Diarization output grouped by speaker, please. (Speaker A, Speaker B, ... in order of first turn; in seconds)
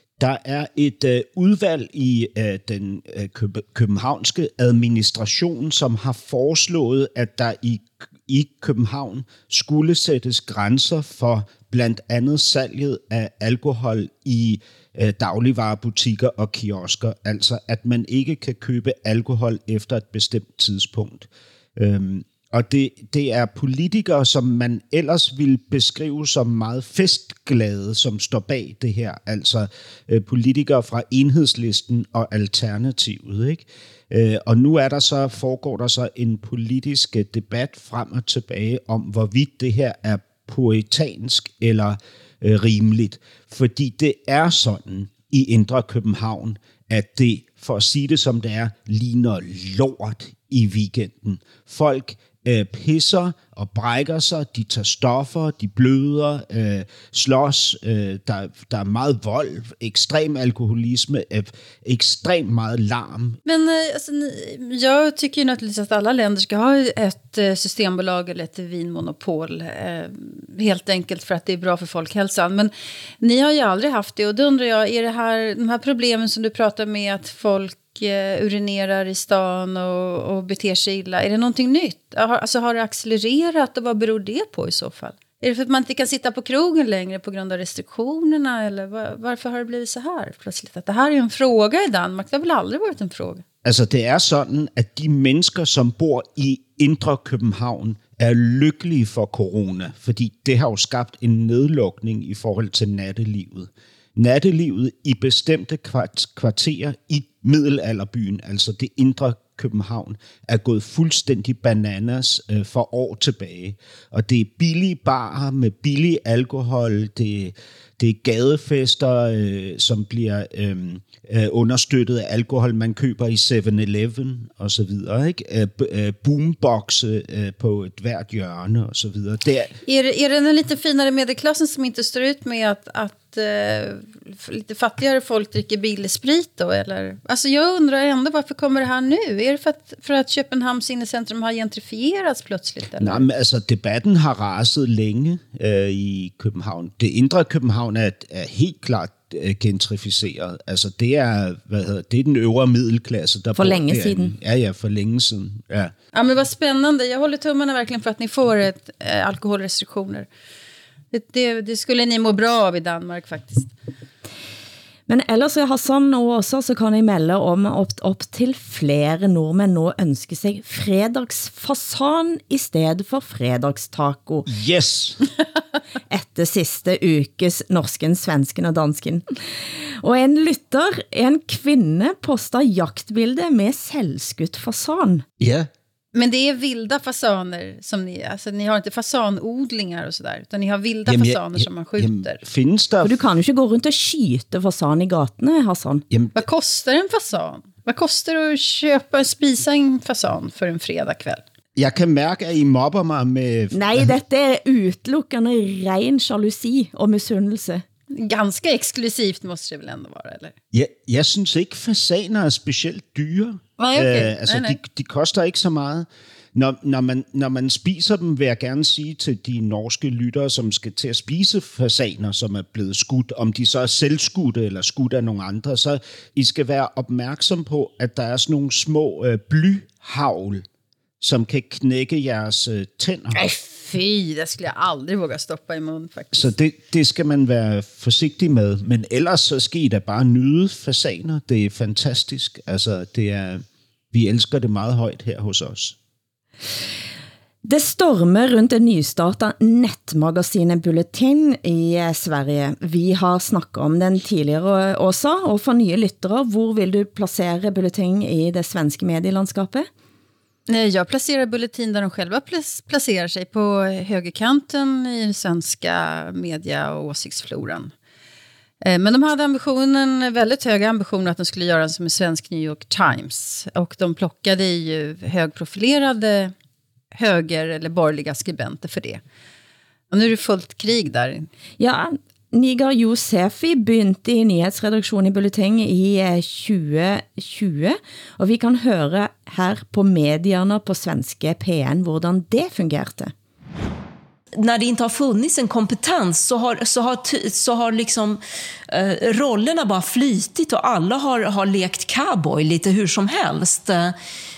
Speaker A: 0.2-63.4, 93.6-129.7, 143.0-155.9, 174.5-175.2, 185.4-185.7, 191.1-193.2, 196.1-196.4, 201.8-204.1, 210.7-230.7, 231.2-233.4, 236.3-246.0
Speaker B: 63.5-93.4, 129.8-143.3, 156.1-160.3, 161.1-163.7, 186.1-192.4, 196.4-201.4, 208.1-210.6, 213.8-214.8, 233.3-236.5, 260.7-267.9, 268.8-276.5, 277.1-279.2, 280.1-281.5
Speaker C: 153.6-154.3, 165.1-174.5, 176.1-185.2, 193.0-196.0, 203.7-207.8, 247.6-259.9, 281.8-293.3
Speaker D: 294.6-304.1